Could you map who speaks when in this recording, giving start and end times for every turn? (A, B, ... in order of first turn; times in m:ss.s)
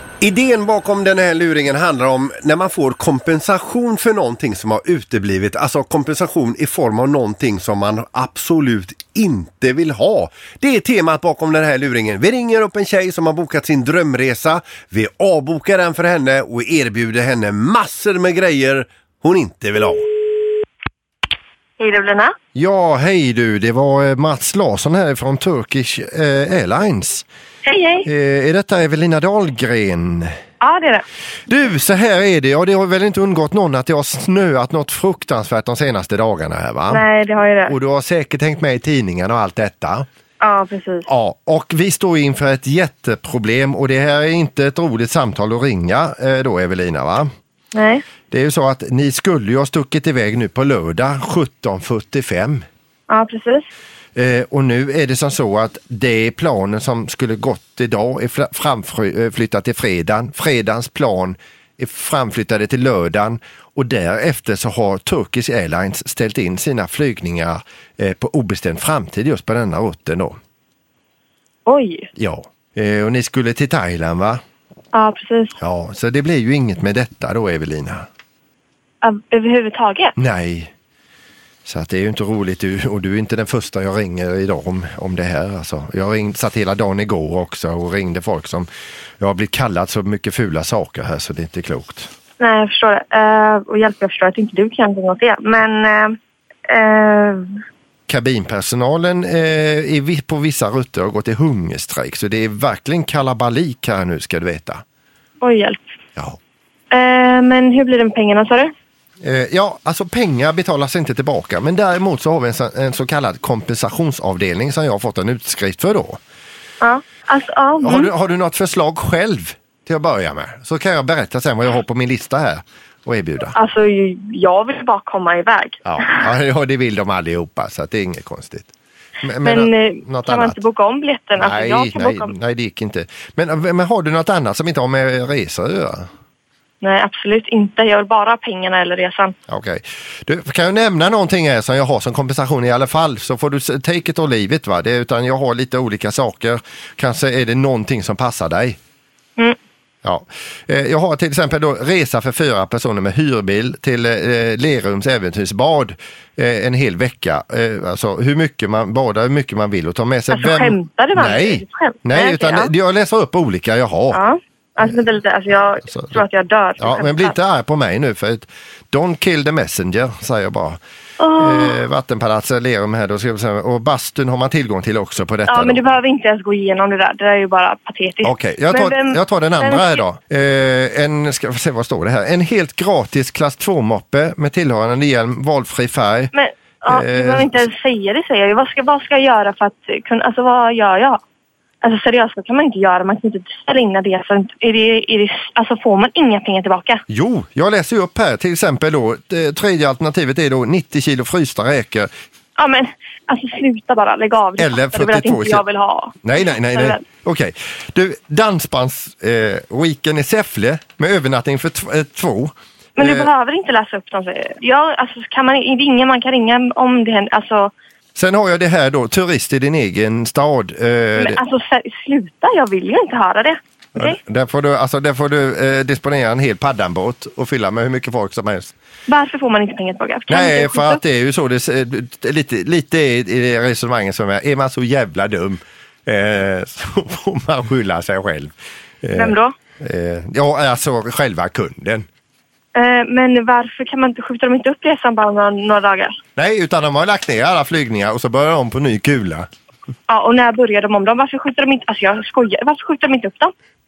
0:00.2-0:00.6 A
0:00.2-0:04.7 B
0:02.1-0:04.1 A
0:04.6-0:11.0 A
0:05.3-0:06.0 B
0:07.2-0:09.0 B
0:10.3-0:11.7 B
0:11.7-0:18.7 A
0:12.7-0:14.9 B
0:15.6-0:18.9 B
0:19.2-0:20.0 A
0:21.8-0:22.3 C
0:22.6-0:27.2 A
0:27.6-0:28.1 C
0:28.1-0:30.3 A
0:30.6-0:31.0 C
0:31.5-0:37.0 A
0:36.9-0:37.8 C
0:37.7-0:40.1 A
0:40.4-0:41.1 C
0:41.1-0:47.3 A
0:47.7-0:48.0 C
0:48.3-0:52.6 A
0:53.1-0:53.6 C
0:54.2-1:10.4 A
1:11.7-1:12.1 C
1:12.2-1:14.4 A
1:14.9-1:15.6 C
1:15.6-1:18.1 A
1:19.0-1:20.2 C
1:20.2-1:20.7 A
1:21.7-1:28.7 A
1:29.2-1:32.1 A
1:32.4-1:37.6 C
1:38.1-1:44.8 A
1:45.4-1:45.8 C
1:46.9-1:48.7 C
1:49.2-1:56.2 A
1:56.8-1:58.1 C
1:57.8-2:03.5 A
2:03.6-2:06.2 C
2:05.8-2:08.7 A
2:09.2-2:10.6 A
2:09.4-2:12.3 C
2:11.4-2:16.1 A
2:16.8-2:19.4 C
2:19.5-2:28.8 A
2:30.0-2:44.2 A
2:40.3-2:42.7 C
2:44.1-2:47.4 C
2:45.9-2:46.2 A
2:46.8-2:50.8 A
2:51.2-2:51.8 C
2:51.4-2:55.8 A
2:55.5-3:00.0 C
2:58.2-3:06.3 A
3:06.3-3:11.2 C
3:06.9-3:07.6 A
3:11.8-3:17.0 C
3:17.1-3:22.1 A
3:22.6-3:27.0 C
3:24.6-3:25.6 A
3:26.2-3:33.3 A
3:33.0-3:37.7 C
3:38.2-3:41.4 A
3:41.2-3:44.2 C
3:44.0-3:48.7 A
3:49.1-3:51.0 C
3:50.3-4:02.1 A
3:59.1-3:59.5 C
4:02.8-4:06.2 C
4:06.4-4:09.5 A
4:10.1-4:13.5 C